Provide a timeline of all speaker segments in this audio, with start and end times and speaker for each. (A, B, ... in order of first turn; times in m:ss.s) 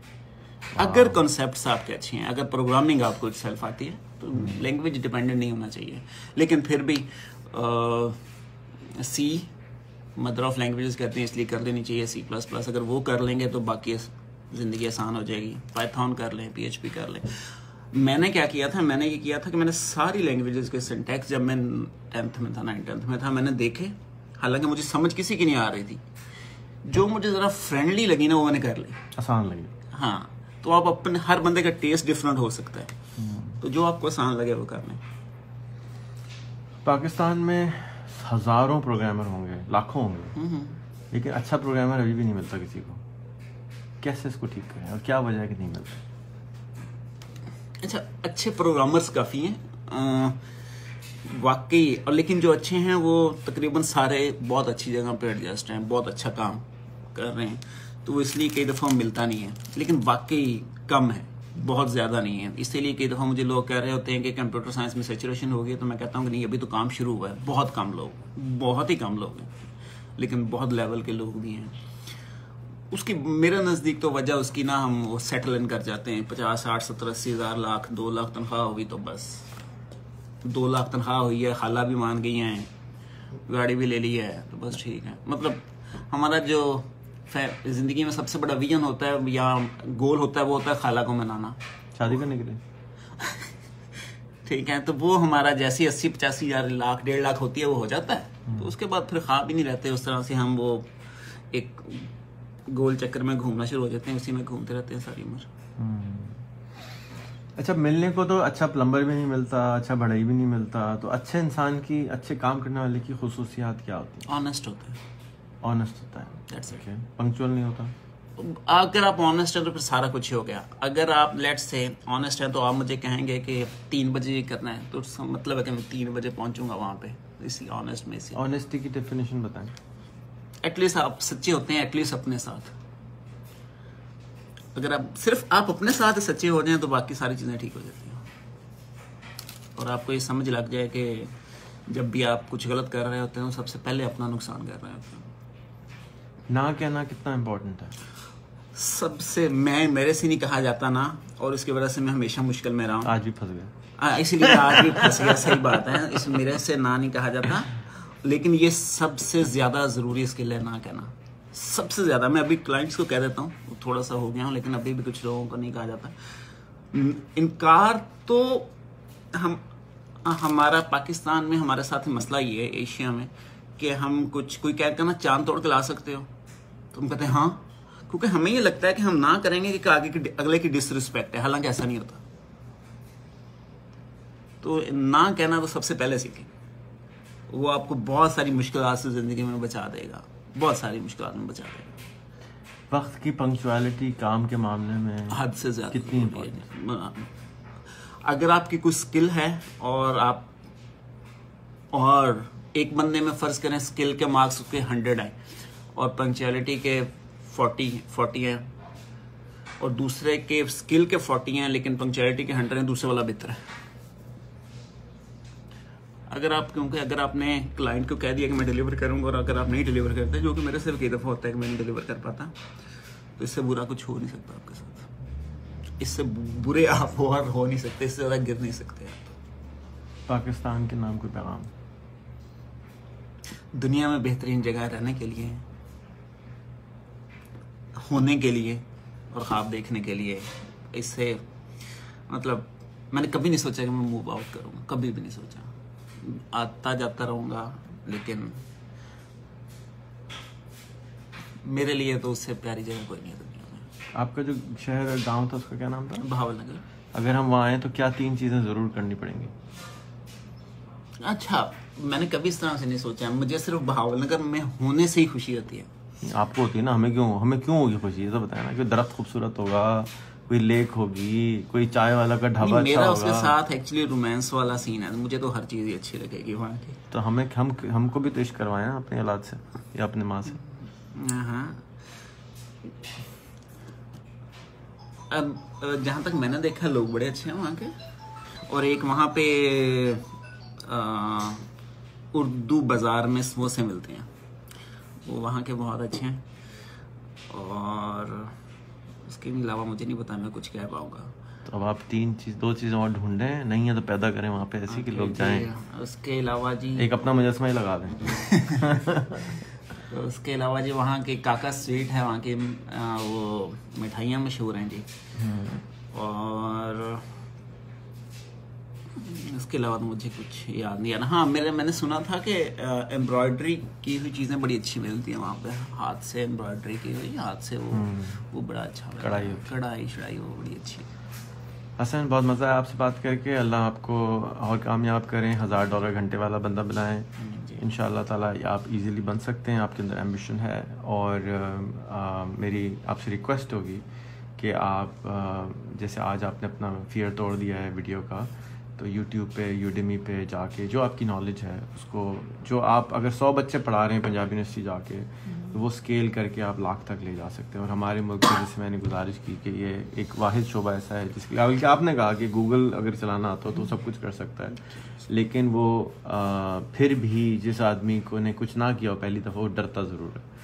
0:00.8-0:08.2 A
0:00.8-0:01.3 B
0:08.9-0:09.5 A
0:10.2-0:26.0 A
0:26.8-0:29.1 A
0:29.1-0:29.7 B
0:29.9-0:33.0 A
0:33.2-0:33.6 B
0:33.6-0:35.0 A
0:36.8-0:40.4 B
0:40.4-0:40.8 A
0:41.1-0:43.0 B
0:44.0-0:46.0 B
0:47.8-0:50.5 A
0:51.2-1:09.6 A
1:10.2-1:11.8 A
1:12.9-1:19.5 A
1:20.4-1:22.7 A
1:23.5-1:31.6 A
1:32.0-1:32.6 B
1:33.2-1:33.5 A
1:34.4-1:42.1 A
1:38.5-1:38.7 B
1:42.7-1:45.5 A
1:45.8-1:46.4 B
1:47.6-1:54.3 B
1:54.3-1:55.0 A
1:55.6-1:58.0 B
1:56.5-1:56.8 A
1:58.4-2:08.4 A
2:08.4-2:09.8 B
2:10.6-2:12.7 A
2:14.8-2:18.3 A
2:19.8-2:21.4 A
2:21.9-2:25.3 A
2:26.5-2:28.0 B
2:28.7-2:33.1 A
2:33.0-2:33.7 B
2:34.0-2:48.7 A
2:34.4-2:35.8 B
2:49.3-2:49.6 A
2:50.2-2:56.3 A
2:56.9-3:02.2 A
3:04.6-3:06.5 A
3:07.5-3:12.0 A
3:12.9-3:16.6 B
3:15.3-3:17.3 A
3:17.9-3:20.5 A
3:21.9-3:25.4 A
3:26.0-3:28.7 A
3:29.8-3:33.7 A
3:36.3-3:42.6 A
3:43.4-3:45.1 A
3:46.0-3:49.4 A
3:50.3-3:51.7 B
3:53.7-3:55.7 A
3:58.0-4:08.6 A
4:11.6-4:13.9 A
4:14.1-4:16.3 B
4:16.2-4:16.8 A
4:17.1-4:19.5 B
4:21.2-4:25.9 A
4:26.2-4:33.6 B
4:32.6-4:37.0 A
4:37.1-4:40.6 B
4:40.6-4:42.0 A
4:45.3-4:48.0 A
4:48.6-4:51.7 A
4:52.3-4:54.3 A
4:55.2-4:56.5 A
4:57.5-4:58.6 A
4:59.3-5:01.3 A
5:01.7-5:05.8 B
5:04.9-5:07.1 A
5:07.0-5:09.6 B
5:08.2-5:09.0 A
5:09.9-5:15.1 A
5:15.4-5:15.8 B
5:16.1-5:17.4 A
5:19.2-5:31.1 A
5:27.9-5:28.4 B
5:29.2-5:29.7 B
5:32.0-5:44.1 B
5:37.4-5:37.8 A
5:44.6-6:10.5 B